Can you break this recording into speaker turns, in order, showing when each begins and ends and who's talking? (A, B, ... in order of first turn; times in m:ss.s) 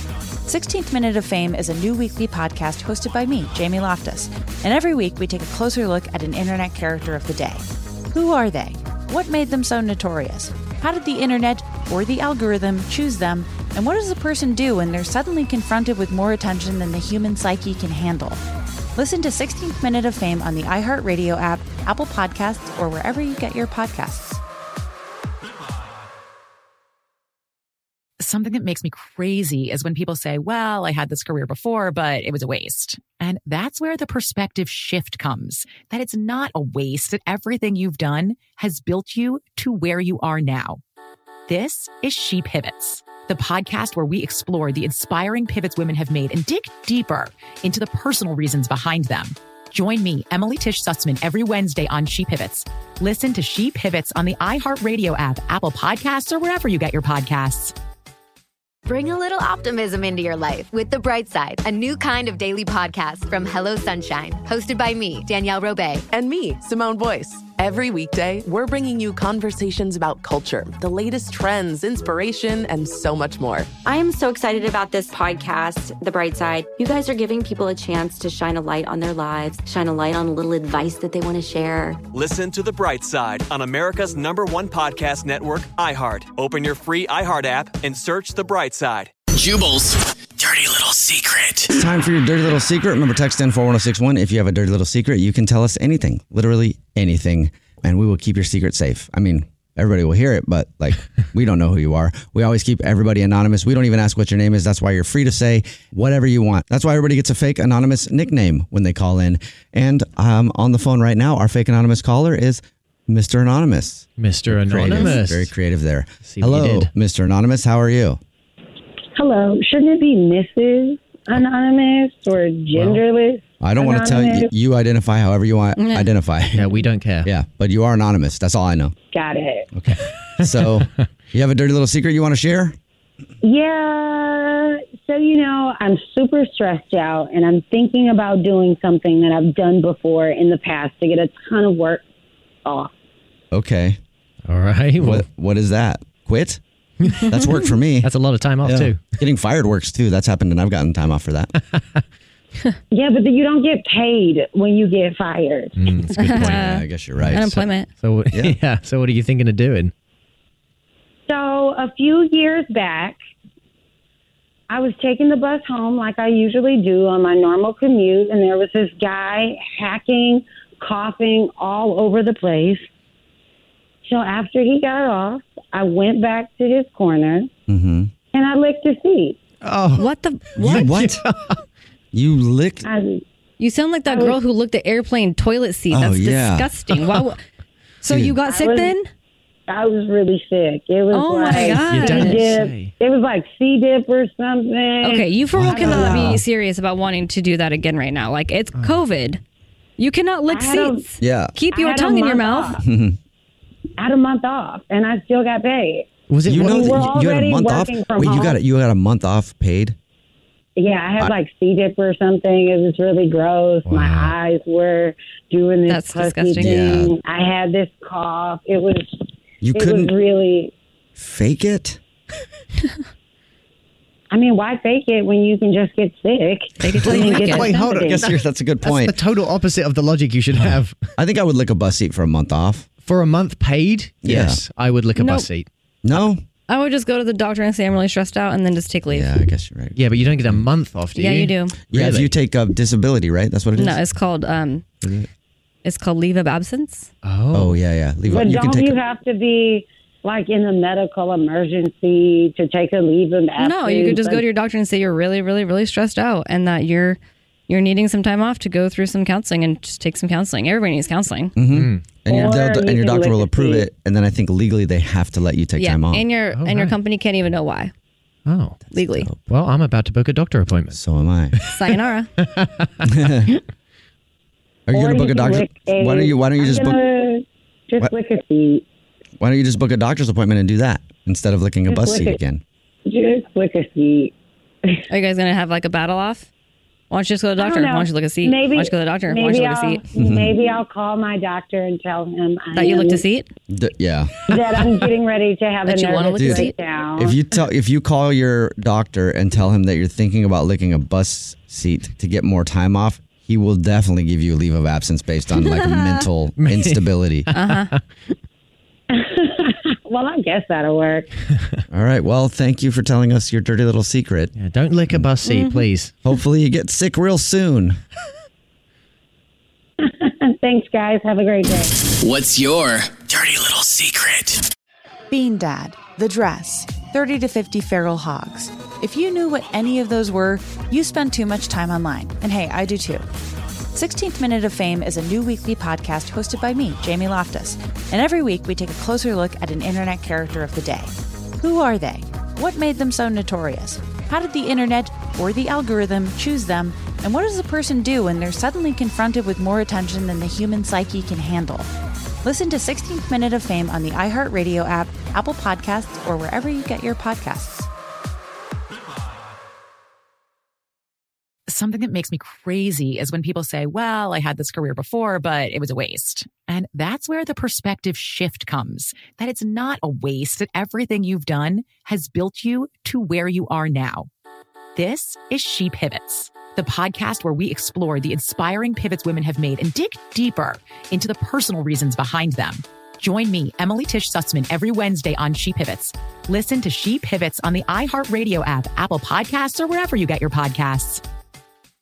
0:00.4-0:18.4 A
0:19.0-0:24.4 A
0:28.2-0:40.8 B
0:41.5-0:57.7 B
0:58.8-1:06.0 C
1:06.1-1:13.7 D
1:13.8-1:22.0 E
1:22.1-1:29.1 F
1:29.3-1:31.7 G
1:31.7-1:58.2 H
1:54.2-1:55.5 I
1:56.2-1:56.9 I
1:59.1-2:04.5 J
2:02.7-2:03.0 I
2:03.6-2:06.7 H
2:05.7-2:06.1 K
2:06.5-2:07.3 I
2:07.2-2:08.9 H
2:09.1-2:09.6 J
2:09.7-2:12.8 H
2:13.4-2:22.0 J
2:22.6-2:22.9 J
2:23.5-2:24.0 H
2:24.4-2:25.2 I
2:25.0-2:26.6 H
2:27.0-2:27.3 I
2:27.2-2:28.1 H
2:28.0-2:29.0 I
2:28.6-2:31.5 H
2:32.9-2:35.8 J
2:35.8-2:39.9 I
2:36.1-2:37.9 K
2:36.3-2:37.6 H
2:38.3-2:38.6 H
2:41.3-2:43.2 J
2:44.7-2:52.8 J
2:54.0-2:57.5 J
2:57.7-2:58.1 H
2:58.3-2:59.4 J
2:59.6-3:01.6 I
3:00.0-3:00.8 K
3:00.6-3:01.2 H
3:02.1-3:02.9 H
3:02.8-3:03.2 J
3:03.6-3:07.4 K
3:04.0-3:04.4 J
3:05.9-3:06.7 H
3:08.0-3:09.1 K
3:08.1-3:08.4 H
3:08.4-3:08.9 J
3:09.7-3:16.4 J
3:11.1-3:12.4 K
3:11.6-3:12.9 I
3:15.0-3:19.4 K
3:15.5-3:16.4 H
3:18.7-3:19.0 I
3:20.0-3:22.8 K
3:20.5-3:21.1 J
3:21.2-3:21.6 H
3:21.7-3:22.8 J
3:22.8-3:23.2 H
3:24.0-3:26.1 J
3:26.3-3:27.1 I
3:26.4-3:29.9 H
3:26.6-3:28.6 J
3:30.8-3:39.2 J
3:33.8-3:34.4 I
3:35.8-3:36.8 K
3:36.6-3:37.1 H
3:39.6-3:40.1 H
3:39.7-3:40.7 J
3:41.2-3:42.0 H
3:44.3-3:48.2 J
3:46.8-3:47.7 K
3:47.0-3:49.2 H
3:47.5-3:51.1 I
3:50.6-3:52.9 H
3:53.0-3:55.7 I
3:54.2-3:54.6 H
3:55.1-3:55.5 K
3:56.0-3:56.4 H
3:56.7-3:59.3 K
3:59.1-4:00.6 H
4:00.0-4:02.3 I
4:01.1-4:01.8 K
4:01.9-4:04.0 H
4:03.8-4:04.8 K
4:05.0-4:05.3 H
4:05.8-4:07.1 K
4:07.2-4:07.8 I
4:07.5-4:09.0 H
4:08.3-4:14.4 J
4:13.6-4:21.6 K
4:21.6-4:26.3 H
4:21.7-4:22.1 I
4:22.3-4:23.9 J
4:25.8-4:27.9 K
4:26.5-4:27.0 I
4:28.4-4:31.0 I
4:28.9-4:29.3 K
4:30.9-4:31.6 H
4:31.5-4:33.1 I
4:31.7-4:32.3 K
4:33.1-4:33.5 H
4:34.9-4:37.0 H
4:34.9-4:38.8 J
4:39.4-4:42.6 H
4:41.9-4:42.4 J
4:43.0-4:44.3 J
4:45.1-4:46.5 K
4:47.1-4:50.0 K
4:47.6-4:53.2 J
4:50.1-4:50.5 H
4:52.7-4:53.5 K
4:53.7-4:54.5 H
4:54.5-4:57.3 J
4:55.8-4:56.7 K
4:56.4-5:07.5 H
5:05.6-5:06.2 K
5:06.6-5:08.0 I
5:07.5-5:07.9 K
5:09.1-5:11.3 J
5:11.9-5:14.5 H
5:14.5-5:16.2 I
5:15.4-5:15.9 K
5:16.2-5:18.0 H
5:20.0-5:22.0 J
5:22.3-5:24.6 G
5:25.3-5:33.2 A
5:33.9-5:51.9 A
5:52.4-5:57.9 A
6:01.7-6:14.3 B
6:15.0-6:31.2 B